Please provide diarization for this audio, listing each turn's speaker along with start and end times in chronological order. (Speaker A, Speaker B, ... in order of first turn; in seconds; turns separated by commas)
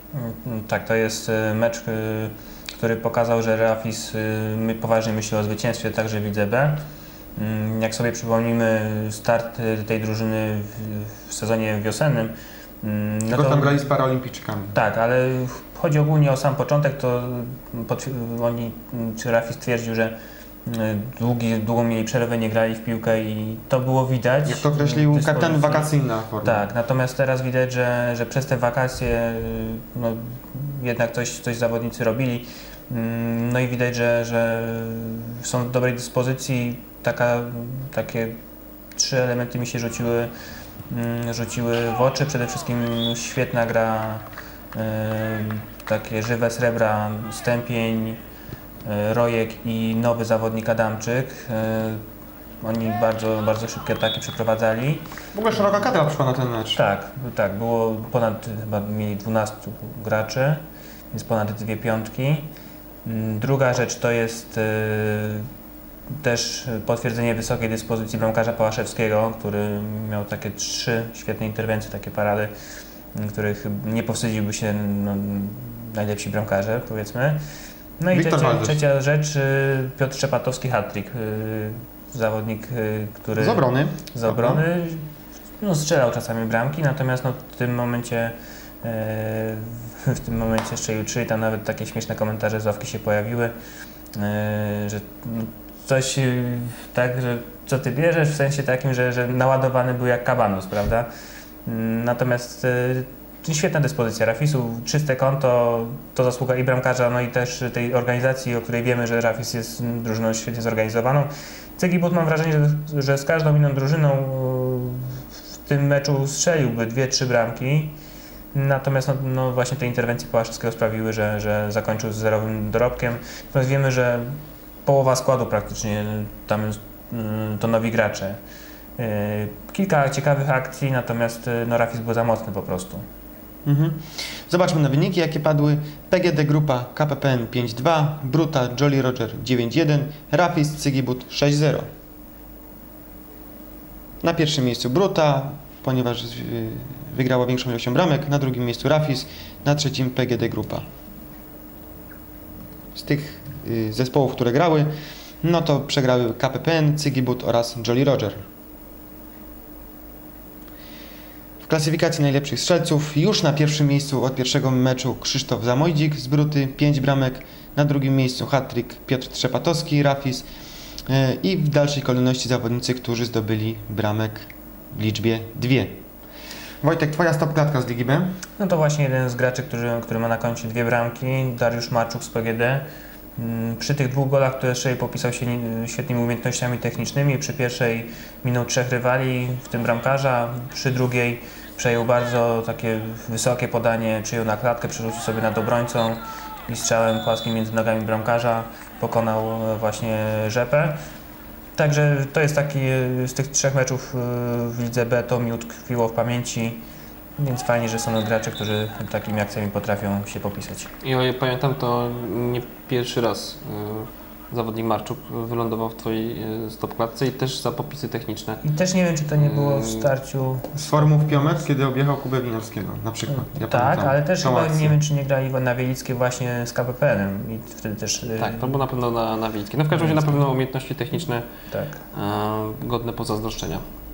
Speaker A: 0.1-6.8, Speaker A: 7.4-13.9, Speaker B: 13.3-14.8, Speaker A: 14.7-25.9, Speaker B: 24.4-26.7, Speaker A: 26.4-38.4, Speaker A: 39.0-40.3, Speaker A: 40.9-48.2, Speaker A: 48.9-52.0, Speaker A: 52.6-55.1, Speaker B: 55.3-56.8, Speaker A: 56.8-60.6, Speaker A: 61.1-62.5, Speaker A: 63.0-65.5, Speaker A: 66.2-72.5, Speaker A: 73.2-77.4, Speaker A: 78.0-85.0, Speaker B: 78.1-78.8, Speaker B: 83.4-84.6, Speaker A: 85.6-93.5, Speaker A: 94.2-101.1, Speaker A: 101.7-118.0, Speaker A: 118.5-124.3, Speaker A: 124.9-128.4, Speaker A: 129.0-133.0, Speaker B: 133.7-141.9, Speaker B: 144.2-150.8, Speaker B: 152.9-154.9, Speaker B: 155.4-158.4, Speaker B: 161.6-170.5, Speaker B: 171.1-176.0, Speaker B: 176.8-178.3, Speaker A: 178.6-182.9, Speaker A: 183.4-201.0, Speaker A: 201.8-206.8, Speaker A: 207.4-210.9, Speaker C: 211.0-218.6, Speaker A: 218.6-221.6, Speaker C: 219.4-220.1, Speaker B: 220.8-225.0, Speaker A: 223.3-228.8, Speaker C: 228.4-231.5, Speaker A: 229.9-230.5, Speaker A: 231.7-232.0, Speaker C: 232.1-233.8